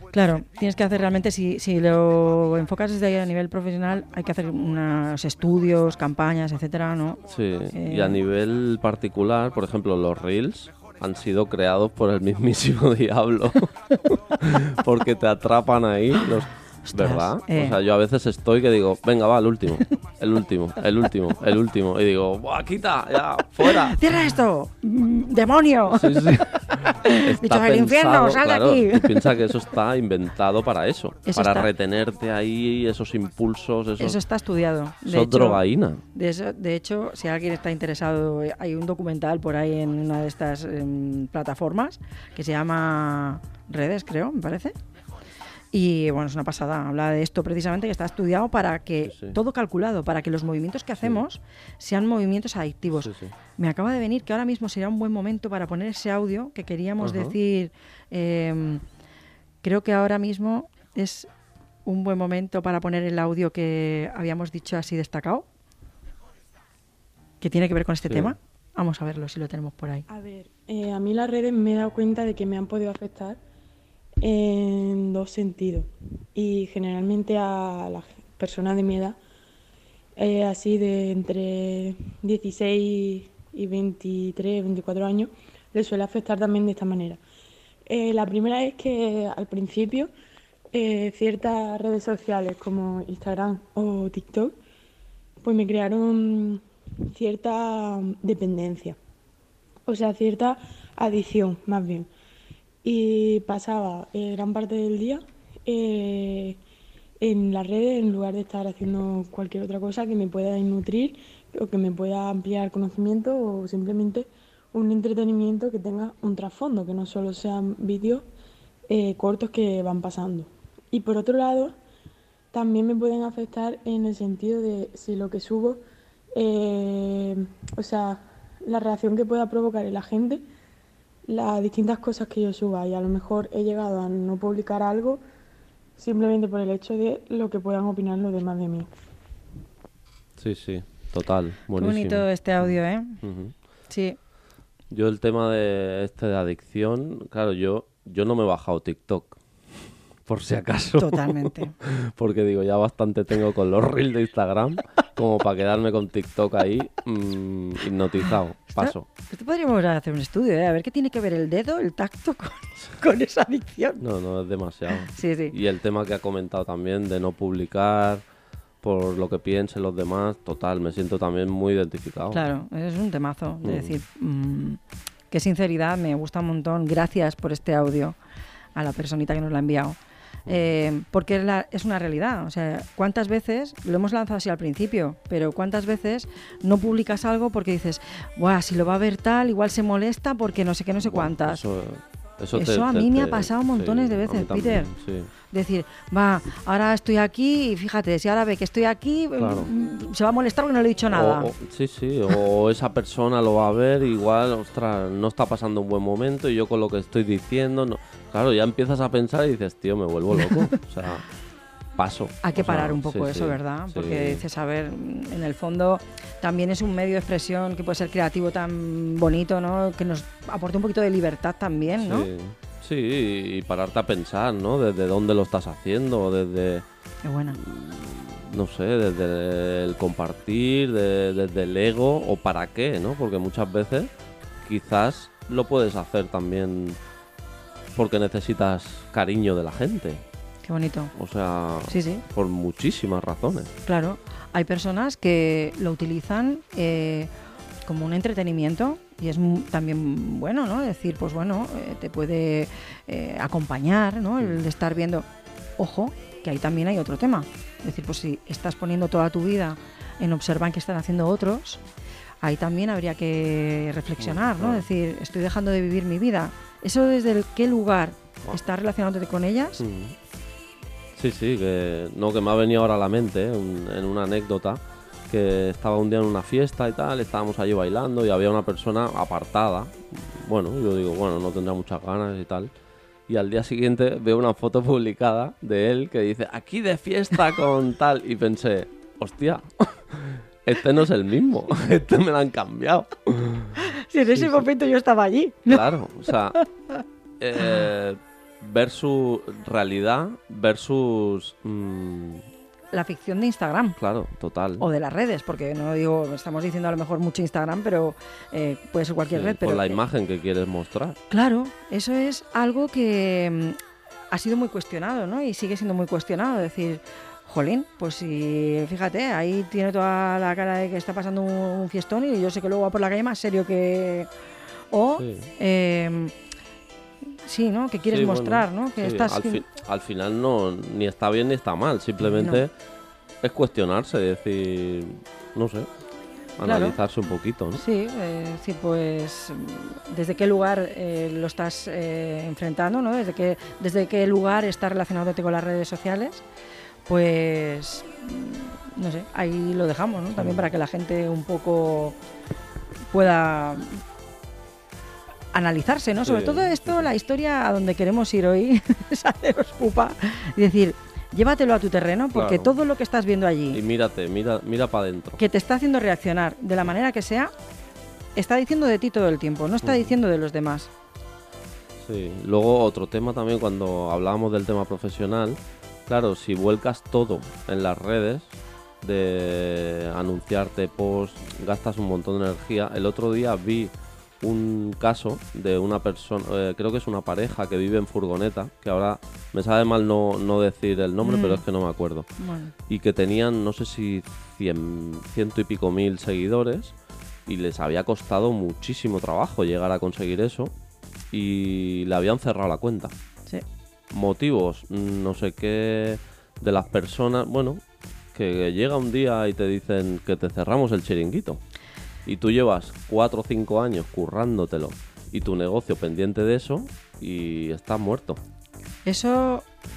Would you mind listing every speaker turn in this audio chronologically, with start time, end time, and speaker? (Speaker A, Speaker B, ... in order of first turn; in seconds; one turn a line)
Speaker A: 0.1-8.2
Speaker B: 7.3-13.7
Speaker B: 14.3-24.2
Speaker A: 16.9-17.8
Speaker A: 23.6-29.5
Speaker B: 25.9-34.2
Speaker A: 31.3-31.7
Speaker A: 34.0-35.6
Speaker B: 35.0-36.0
Speaker A: 36.1-44.8
Speaker A: 45.7-58.8
Speaker B: 49.0-49.4
Speaker B: 53.0-53.3
Speaker B: 57.0-57.4
Speaker A: 59.6-61.3
Speaker A: 61.9-65.5
Speaker A: 67.4-70.1
Speaker B: 68.0-68.4
Speaker C: 70.1-73.4
Speaker C: 74.2-79.2
Speaker C: 80.2-87.2
Speaker C: 87.9-90.1
Speaker C: 90.7-94.6
Speaker C: 95.4-99.0
Speaker C: 99.9-102.1
Speaker C: 102.8-106.6
Speaker C: 107.2-118.3
Speaker C: 118.9-121.8
Speaker C: 122.5-125.8
Speaker C: 126.3-130.4
Speaker C: 131.3-135.2
Speaker C: 136.0-138.9
Speaker B: 140.4-143.5
Speaker A: 141.7-143.2
Speaker A: 143.9-144.2
Speaker B: 144.9-159.1
Speaker A: 151.0-151.8
Speaker A: 158.7-164.0
Speaker B: 164.0-168.2
Speaker A: 165.1-165.6
Speaker B: 168.8-172.5
Speaker A: 172.3-174.8
Speaker B: 173.6-174.0
Speaker A: 175.3-178.2
Speaker A: 178.8-191.6
Speaker B: 191.0-195.3
Speaker A: 192.5-194.9
Speaker A: 195.5-201.5
Speaker B: 199.4-199.7
Speaker B: 201.1-211.3
Speaker B: 212.0-214.4
Speaker A: 212.4-222.3
Speaker B: 222.0-226.9
Speaker A: 227.2-227.6
Speaker B: 227.5-234.1
Speaker B: 234.6-237.0
Speaker B: 238.0-240.2
Speaker A: 240.7-241.1
Speaker B: 241.2-243.7
Speaker A: 241.9-242.2
Speaker A: 243.9-247.3
Speaker A: 247.9-255.3
Speaker A: 255.8-261.8
Speaker A: 262.4-269.8
Speaker B: 264.2-264.9
Speaker B: 269.8-270.2
Speaker B: 271.2-282.7
Speaker B: 283.3-293.7
Speaker A: 293.8-297.0
Speaker B: 294.4-294.6
Speaker B: 295.7-296.6
Speaker B: 297.4-302.5
Speaker A: 302.9-304.0
Speaker B: 304.0-304.9
Speaker A: 304.8-310.0
Speaker B: 309.3-311.2
Speaker A: 311.3-313.8
Speaker A: 314.3-324.3
Speaker A: 324.9-326.3
Speaker B: 325.2-325.5
Speaker A: 327.4-329.6
Speaker B: 328.0-332.7
Speaker A: 332.2-332.6
Speaker B: 333.4-335.9
Speaker B: 336.6-337.8
Speaker A: 336.6-337.0
Speaker A: 337.8-346.4
Speaker A: 347.1-352.2
Speaker B: 350.4-350.7
Speaker A: 353.1-354.0
Speaker A: 355.5-363.8
Speaker B: 356.2-357.1
Speaker B: 362.3-362.7
Speaker B: 363.7-365.4
Speaker A: 365.4-367.5
Speaker A: 368.4-370.9
Speaker B: 369.8-370.1
Speaker B: 372.0-392.3
Speaker A: 391.2-391.6
Speaker A: 392.4-392.7
Speaker B: 392.9-396.9
Speaker B: 397.5-400.7
Speaker B: 401.3-403.1
Speaker B: 404.1-411.6
Speaker B: 412.3-418.4
Speaker A: 419.1-419.7